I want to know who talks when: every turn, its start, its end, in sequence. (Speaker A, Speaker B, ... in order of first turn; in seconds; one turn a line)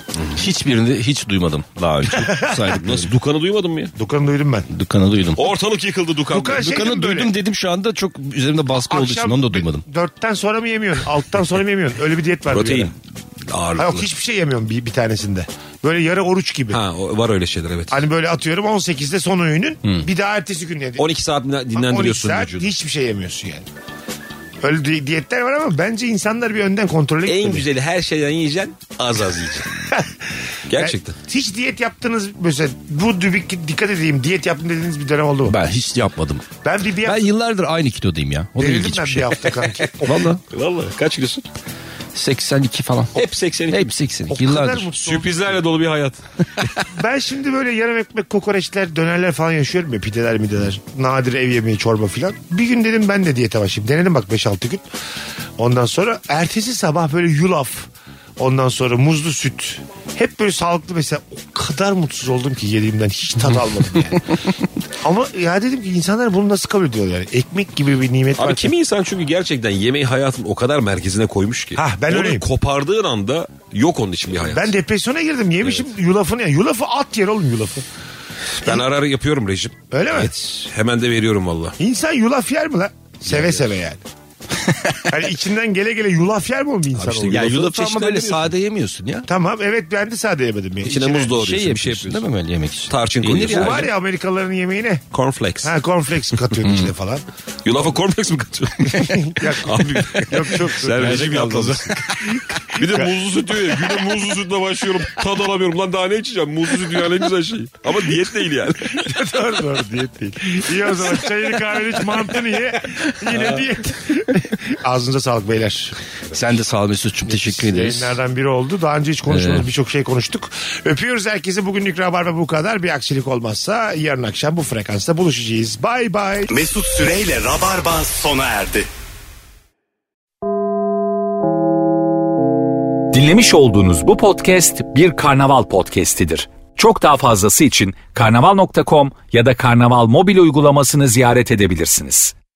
Speaker A: 0.2-0.4
Speaker B: 0.3-3.1
Speaker C: 2.1-2.7
Speaker A: 2.7-4.0
Speaker C: 4.0-4.7
Speaker B: 4.7-5.5
Speaker A: 5.4-6.8
Speaker C: 6.3-7.3
Speaker B: 6.5-9.8
Speaker C: 8.8-12.9
Speaker A: 12.5-12.9
Speaker A: 13.5-14.1
Speaker C: 13.8-16.8
Speaker A: 16.7-18.1
Speaker C: 17.9-21.0
Speaker A: 21.0-22.7
Speaker C: 21.7-23.7
Speaker C: 24.6-27.6
Speaker A: 27.3-29.7
Speaker A: 30.7-31.2
Speaker C: 30.7-35.6
Speaker B: 35.5-36.5
Speaker C: 36.6-37.3
Speaker B: 37.0-40.4
Speaker C: 38.6-40.3
Speaker A: 40.5-41.4
Speaker B: 42.1-44.9
Speaker A: 43.1-43.9
Speaker C: 44.3-45.6
Speaker A: 45.0-46.7
Speaker C: 46.9-54.8
Speaker C: 55.6-64.4
Speaker C: 65.0-68.7
Speaker A: 68.4-74.8
Speaker C: 71.8-72.5
Speaker C: 74.3-77.8
Speaker A: 78.6-81.8
Speaker C: 79.9-80.5
Speaker C: 81.8-84.0
Speaker A: 83.2-83.7
Speaker C: 85.0-87.6
Speaker A: 87.0-88.5
Speaker B: 87.0-89.3
Speaker C: 89.3-91.3
Speaker A: 90.8-92.2
Speaker B: 91.3-93.9
Speaker A: 92.9-93.9
Speaker C: 93.4-95.0
Speaker A: 95.1-95.8
Speaker C: 95.6-97.2
Speaker B: 96.6-96.9
Speaker A: 97.7-102.0
Speaker C: 99.0-101.7
Speaker B: 100.9-102.4
Speaker A: 102.7-109.1
Speaker C: 102.8-103.1
Speaker C: 108.9-115.9
Speaker A: 113.3-113.6
Speaker B: 116.3-118.2
Speaker C: 117.3-126.5
Speaker B: 119.3-119.7
Speaker D: 126.5-128.9
Speaker E: 133.1-142.3